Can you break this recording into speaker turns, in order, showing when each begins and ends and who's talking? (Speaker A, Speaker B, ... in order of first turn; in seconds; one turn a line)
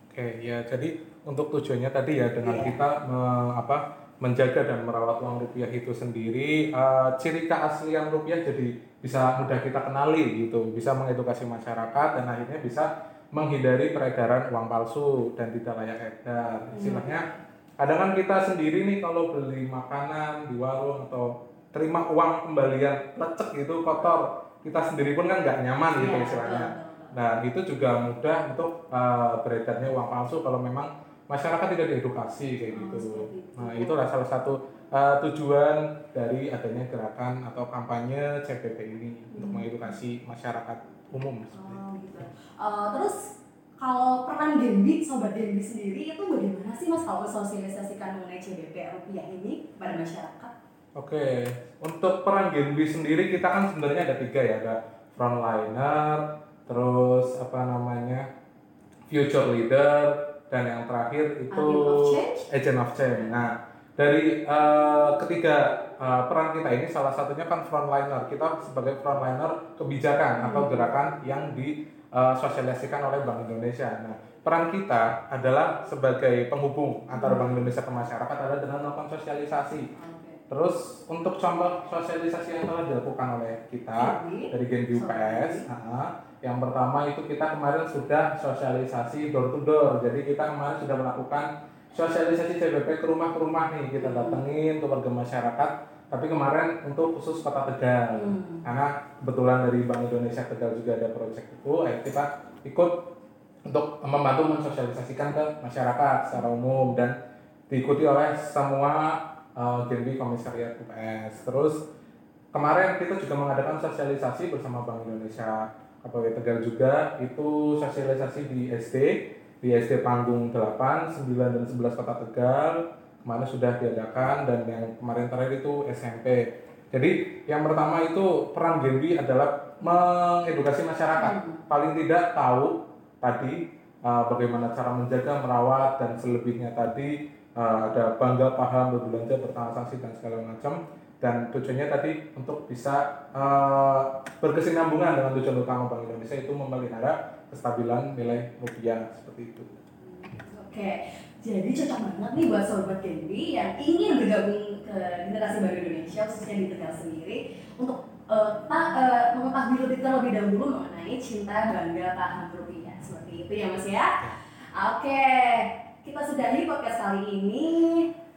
Speaker A: 0.1-17.2
Speaker B: 2.4-2.8
Speaker B: 16.7-17.2
Speaker A: 17.8-41.8
Speaker B: 25.9-27.1
Speaker B: 32.7-34.1
Speaker B: 39.3-39.7
Speaker B: 41.5-50.5
Speaker A: 51.0-58.2
Speaker A: 59.1-79.9
Speaker B: 61.5-62.4
Speaker B: 70.4-70.9
Speaker B: 77.2-77.7
Speaker B: 80.0-80.4
Speaker A: 80.5-103.1
Speaker B: 84.0-85.7
Speaker B: 94.0-94.4
Speaker B: 98.1-98.6
Speaker A: 103.7-107.2
Speaker A: 107.7-111.8
Speaker A: 112.5-149.8
Speaker B: 131.2-131.6
Speaker B: 150.0-168.1